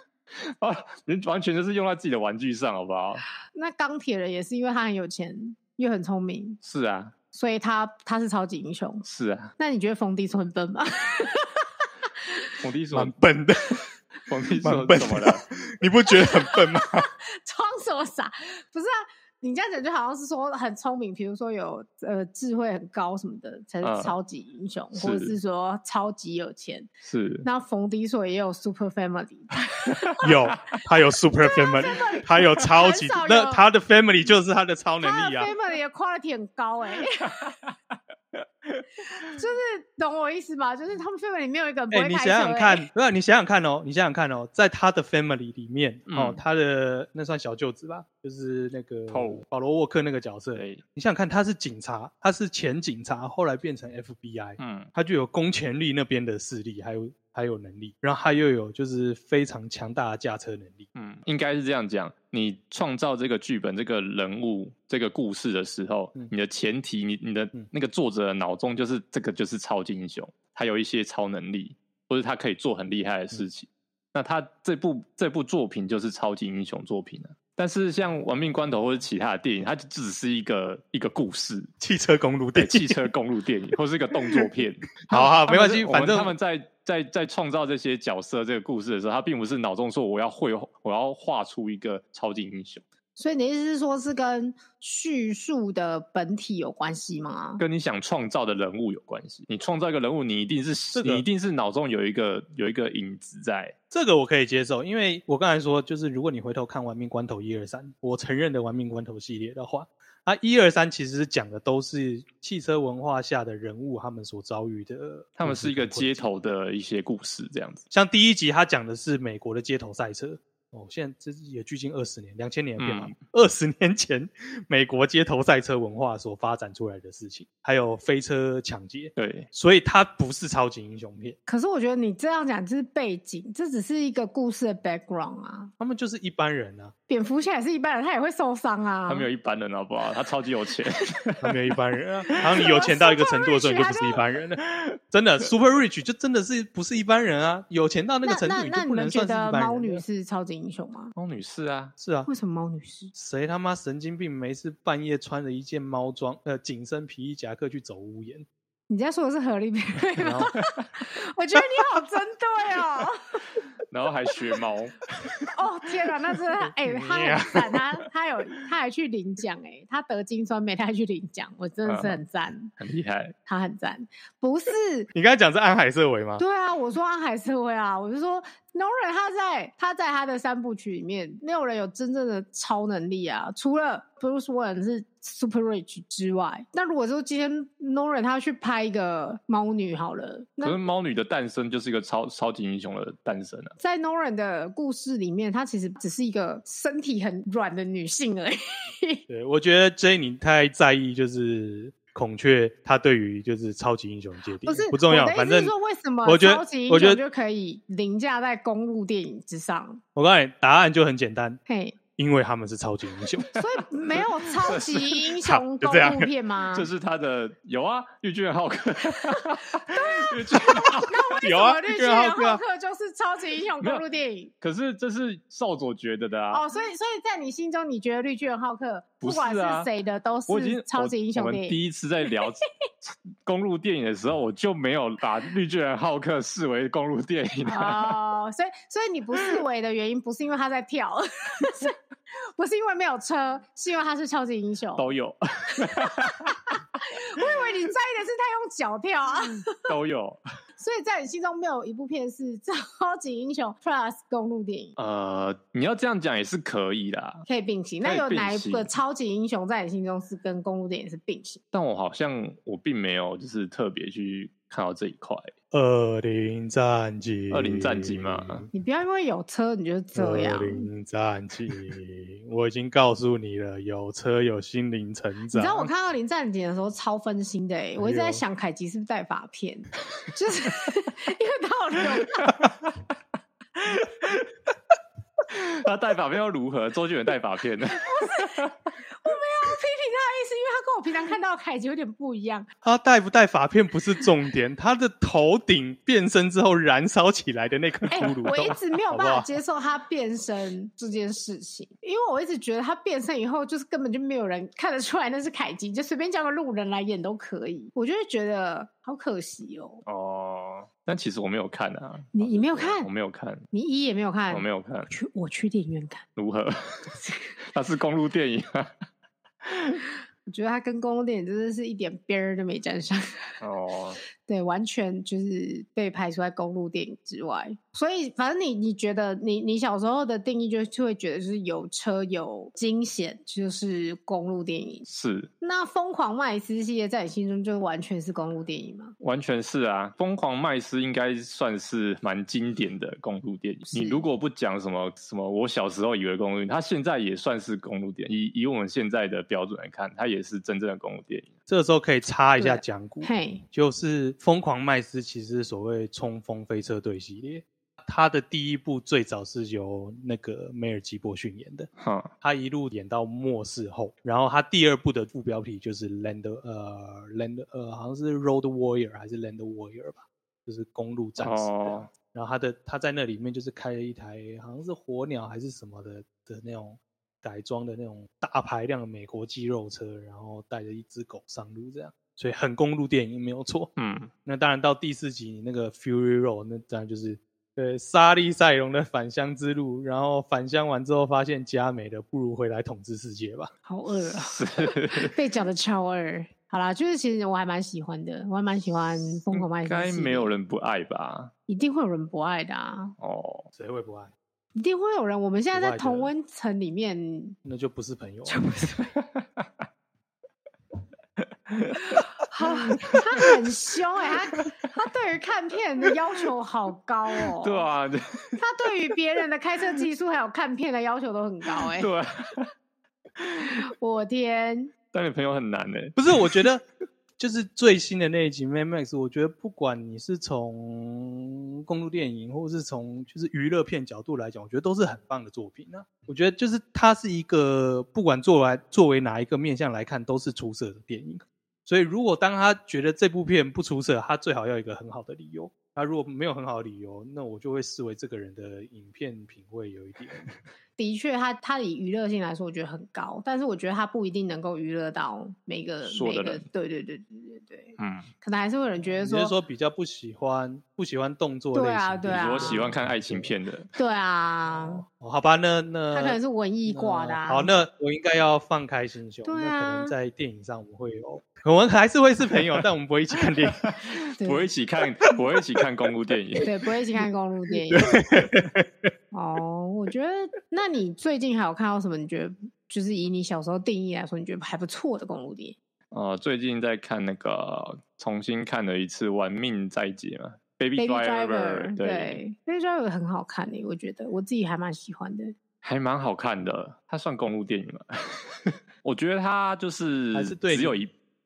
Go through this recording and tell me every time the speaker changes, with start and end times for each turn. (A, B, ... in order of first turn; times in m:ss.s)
0:00.3-0:03.2 A
0:03.5-0:06.6 B
0:06.6-0:07.1 A
0:07.3-0:09.0 B
0:09.0-0:09.5 A
0:09.6-0:12.4 B
0:12.6-0:13.2 A
0:12.9-0:13.8 C
0:14.3-0:15.4 A
0:14.6-0:17.1 C
0:16.1-0:26.9 B
0:23.8-0:24.1 A
0:24.9-0:25.4 A
0:27.0-0:27.5 A
0:27.4-0:30.3 B
0:30.2-0:35.5 C
0:31.4-0:33.6 B
0:35.0-0:37.6 B
0:37.4-0:37.7 A
0:38.3-0:39.3 A
0:39.1-0:42.9 B
0:41.9-1:00.9 C
0:46.1-0:46.4 A
0:49.1-0:49.4 A
0:50.5-0:50.8 A
0:54.6-0:54.9 A
1:00.9-1:21.7 A
1:21.8-1:23.0 C
1:22.5-1:32.8 A
1:25.1-1:26.3 C
1:33.2-1:37.6 B
1:37.6-1:43.7 A
1:40.9-1:41.2 C
1:43.9-1:56.3 C
1:55.4-1:57.9 A
1:57.9-2:11.4 C
2:02.8-2:03.1 A
2:09.2-2:09.5 A
2:11.5-2:15.7 B
2:15.8-2:16.9 C
2:17.1-2:19.3 B
2:19.0-2:21.5 A
2:21.4-2:30.0 C
2:22.4-2:24.2 B
2:28.2-2:31.1 B
2:31.1-2:31.9 A
2:32.0-2:32.3 C
2:32.2-2:33.1 B
2:33.1-2:38.4 C
2:38.9-2:43.4 B
2:40.2-2:40.5 C
2:43.9-2:45.5 A
2:45.5-2:52.7 B
2:46.7-2:47.8 C
2:51.8-2:52.2 A
2:52.8-2:53.3 A
2:53.5-2:55.1 B
2:55.1-2:56.4 C
2:56.4-3:10.8 B
3:10.6-3:13.7 A
3:13.8-3:19.2 B
3:19.3-3:25.7 C
3:24.6-3:30.0 B
3:26.2-3:27.2 C
3:30.1-3:31.6 C
3:31.7-3:32.0 B
3:32.2-3:33.5 C
3:33.6-3:36.9 B
3:34.1-3:35.3 A
3:35.4-3:36.3 C
3:36.7-3:41.4 A
3:39.9-3:44.5 B
3:41.4-3:42.6 C
3:44.6-3:46.6 A
3:46.5-3:51.8 B
3:49.2-3:49.9 A
3:50.5-3:58.1 A
3:57.7-4:02.0 B
4:02.6-4:05.0 B
4:05.0-4:06.7 A
4:05.8-4:09.8 B
4:09.8-4:10.4 A
4:10.8-4:14.9 B
4:15.0-4:17.4 A
4:17.5-4:21.6 B
4:18.0-4:18.9 A
4:21.7-4:25.5 A
4:25.7-4:28.7 C
4:27.5-4:28.6 A
4:28.7-4:30.9 B
4:30.2-4:35.9 C
4:35.5-4:42.5 B
4:38.0-4:38.4 C
4:42.3-4:43.0 A
4:43.8-4:44.5 A
4:45.5-4:48.8 A
4:47.9-4:48.7 B
4:49.2-4:52.7 B
4:52.8-4:59.5 C
4:58.1-5:10.0 B
5:10.0-5:13.7 A
5:12.3-5:13.1 B
5:13.7-5:16.2 B
5:14.5-5:15.1 A
5:16.4-5:17.1 A
5:17.2-5:17.5 B
5:17.7-5:18.9 A
5:19.6-5:20.0 A
5:20.5-5:23.6 B
5:23.6-5:24.2 A
5:24.4-5:35.0 B
5:35.0-5:35.5 A
5:35.6-5:39.1 B
5:39.2-5:51.5 A
5:43.9-5:44.2 B
5:51.7-6:01.9 C
5:52.6-5:53.6 B
6:02.0-6:02.3 A
6:02.4-6:23.9 C
6:11.4-6:12.1 A
6:24.0-6:24.3 A
6:24.4-6:33.7 C
6:33.8-6:40.5 B
6:34.2-6:35.3 A
6:39.5-6:41.5 A
6:41.7-6:43.1 B
6:43.2-6:43.7 A
6:43.7-6:44.3 C
6:44.8-6:47.6 B
6:45.7-6:46.3 C
6:47.6-6:48.6 C
6:48.4-6:49.1 B
6:49.1-6:49.8 A
6:51.4-6:52.2 A
6:52.1-6:57.9 B
6:52.8-6:53.5 A
6:54.5-6:54.8 A
6:57.6-6:58.6 A
6:58.6-7:02.1 B
7:01.7-7:02.7 A
7:03.4-7:03.7 A
7:03.6-7:04.9 B
7:05.1-7:06.6 A
7:06.2-7:06.8 C
7:07.4-7:30.5 C
7:31.0-7:39.6 B
7:36.0-7:36.6 A
7:38.0-7:38.3 A
7:39.0-7:43.5 C
7:41.7-7:42.9 B
7:42.3-7:43.9 A
7:44.0-7:45.0 B
7:44.6-7:53.8 C
7:46.1-7:47.7 B
7:49.4-7:50.1 B
7:53.7-7:56.7 A
7:54.4-7:54.7 B
7:56.6-7:58.2 B
7:57.9-7:58.8 C
7:59.3-8:05.8 B
8:06.1-8:12.4 A
8:11.0-8:15.5 B
8:15.8-8:21.1 A
8:20.3-8:21.0 C